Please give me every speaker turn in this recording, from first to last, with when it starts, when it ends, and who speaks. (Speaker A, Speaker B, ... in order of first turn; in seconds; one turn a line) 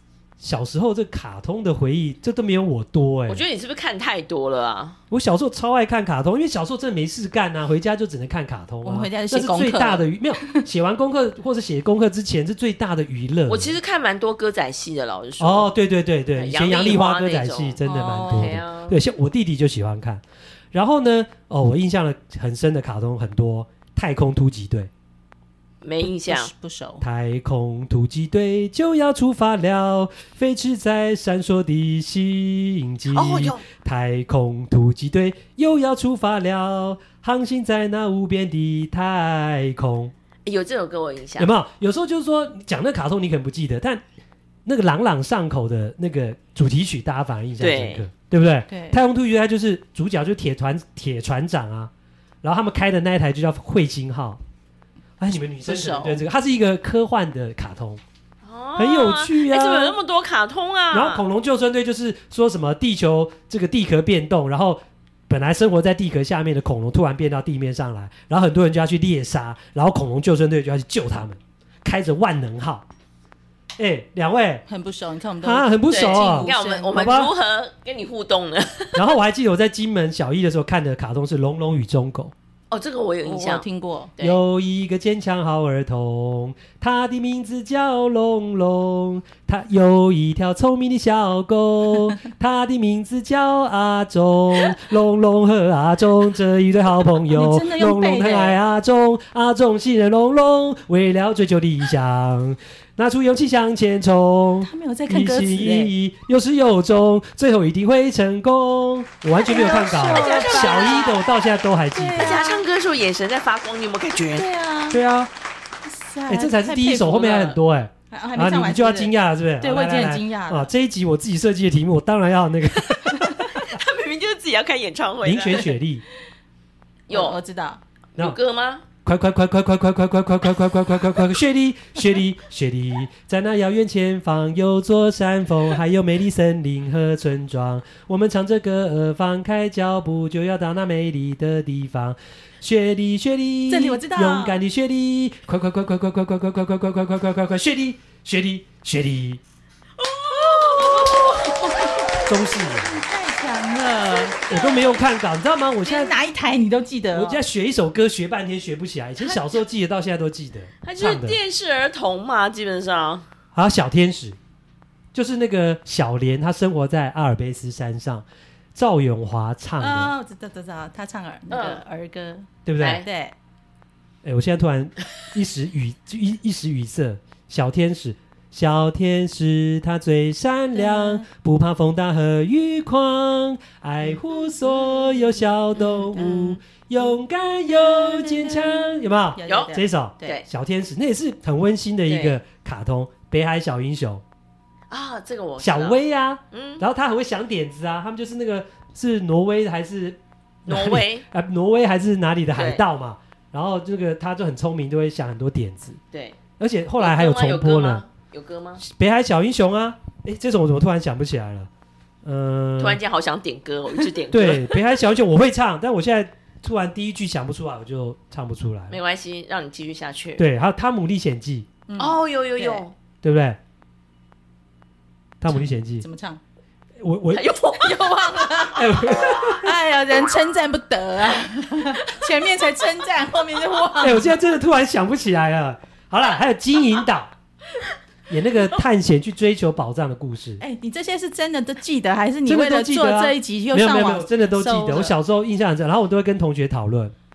Speaker A: 0.4-3.4
Speaker B: 3.3-5.0
Speaker A: 5.1-13.8
Speaker C: 8.8-10.6
Speaker B: 13.5-15.7
Speaker A: 15.4-20.2
Speaker B: 16.4-19.0
Speaker C: 17.8-18.6
Speaker A: 20.7-24.9
Speaker B: 25.8-26.5
Speaker C: 26.2-27.0
Speaker A: 27.0-40.1
Speaker B: 33.1-33.6
Speaker B: 40.5-41.5
Speaker A: 41.4-44.0
Speaker A: 44.6-51.9
Speaker B: 47.6-48.1
Speaker C: 48.7-49.0
Speaker A: 52.4-54.4
Speaker A: 55.2-58.0
Speaker C: 55.6-56.2
Speaker B: 58.4-61.2
Speaker A: 58.8-60.0
Speaker A: 60.9-72.8
Speaker A: 73.8-74.6
Speaker C: 74.7-76.9
Speaker A: 75.4-77.3
Speaker B: 75.9-79.0
Speaker A: 78.9-82.3
Speaker B: 82.7-83.6
Speaker C: 83.2-84.1
Speaker A: 84.2-112.4
Speaker C: 97.3-98.6
Speaker C: 104.6-105.9
Speaker C: 109.4-111.2
Speaker B: 109.5-111.2
Speaker C: 111.9-112.6
Speaker B: 112.2-114.5
Speaker C: 114.2-115.0
Speaker A: 114.9-115.3
Speaker C: 115.8-117.6
Speaker A: 116.3-123.7
Speaker C: 118.1-120.7
Speaker B: 123.5-125.7
Speaker A: 125.2-126.0
Speaker B: 127.1-127.4
Speaker C: 127.1-127.8
Speaker B: 128.2-128.8
Speaker A: 129.0-149.4
Speaker C: 143.7-144.6
Speaker B: 150.0-151.9
Speaker C: 150.7-154.8
Speaker A: 152.2-153.0
Speaker A: 154.4-156.1
Speaker C: 155.8-157.4
Speaker A: 157.1-161.4
Speaker B: 160.8-163.2
Speaker A: 163.5-164.4
Speaker A: 165.1-170.1
Speaker C: 169.8-173.3
Speaker B: 171.5-171.8
Speaker A: 172.7-173.0
Speaker B: 172.8-173.1
Speaker A: 174.2-194.2
Speaker C: 180.7-181.2
Speaker C: 186.0-186.2
Speaker B: 186.1-186.6
Speaker C: 187.8-190.4
Speaker B: 189.4-190.4
Speaker B: 192.1-192.4
Speaker B: 194.9-196.0
Speaker A: 195.6-206.0
Speaker B: 196.5-196.8
Speaker B: 200.7-201.2
Speaker B: 202.5-202.8
Speaker B: 206.1-206.4
Speaker A: 206.6-208.0
Speaker B: 207.0-208.8
Speaker A: 208.8-211.7
Speaker A: 212.2-213.0
Speaker B: 212.8-214.8
Speaker A: 214.3-219.0
Speaker B: 218.9-220.4
Speaker A: 220.4-221.7
Speaker C: 221.9-222.8
Speaker B: 222.0-222.9
Speaker A: 223.2-223.6
Speaker A: 225.4-226.1
Speaker C: 225.5-226.4
Speaker A: 227.0-227.5
Speaker B: 227.3-228.7
Speaker C: 227.8-234.3
Speaker A: 228.7-229.7
Speaker A: 234.0-237.3
Speaker A: 238.3-240.6
Speaker C: 240.6-245.1
Speaker A: 242.4-247.1